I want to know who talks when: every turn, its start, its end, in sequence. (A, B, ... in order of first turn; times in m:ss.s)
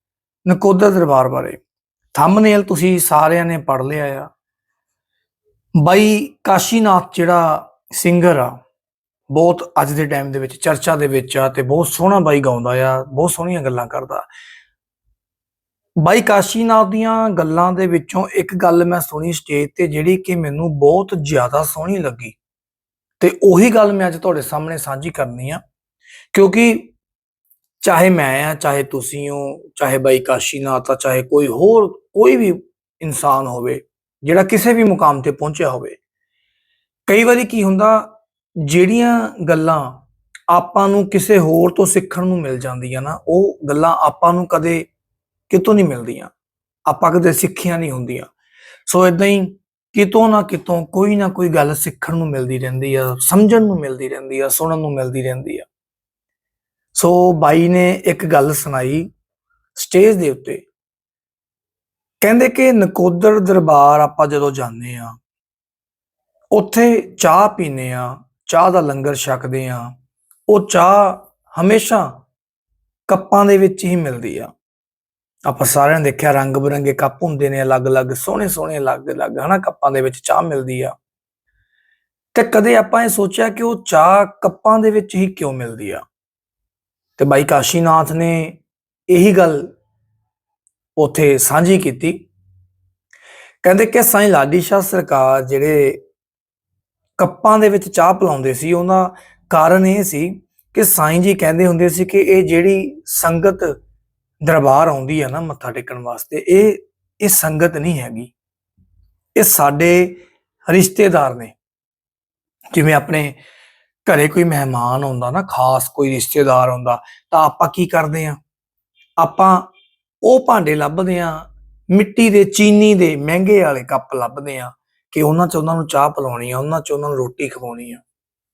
0:00.4-0:01.6 A
0:02.1-0:04.3 A
0:05.8-0:08.6 A
0:09.3-0:14.2 A
0:16.0-0:22.4 A
0:23.2-0:25.6 A
0:26.3-0:26.9 A
0:27.8-0:36.0 A
0:37.1-0:44.9 A
0:45.5-0:46.3 A
0:46.8-0:48.3 A
0:48.9-0:55.7 A
0:56.9-0:59.1 A
0:59.7-1:00.6 A
1:02.2-1:05.1 A
1:06.5-1:09.9 A
1:10.5-1:12.2 A
1:13.1-1:14.5 A
1:15.4-1:20.9 A
1:22.3-1:26.0 A
1:27.2-1:29.7 A
1:31.0-1:32.2 A
1:33.6-1:36.0 A
1:37.2-1:43.7 A
1:44.4-1:48.3 A
1:49.3-1:51.5 A
1:52.7-1:53.4 A
1:54.0-1:58.4 A
1:59.2-1:59.7 A
2:00.2-2:08.0 A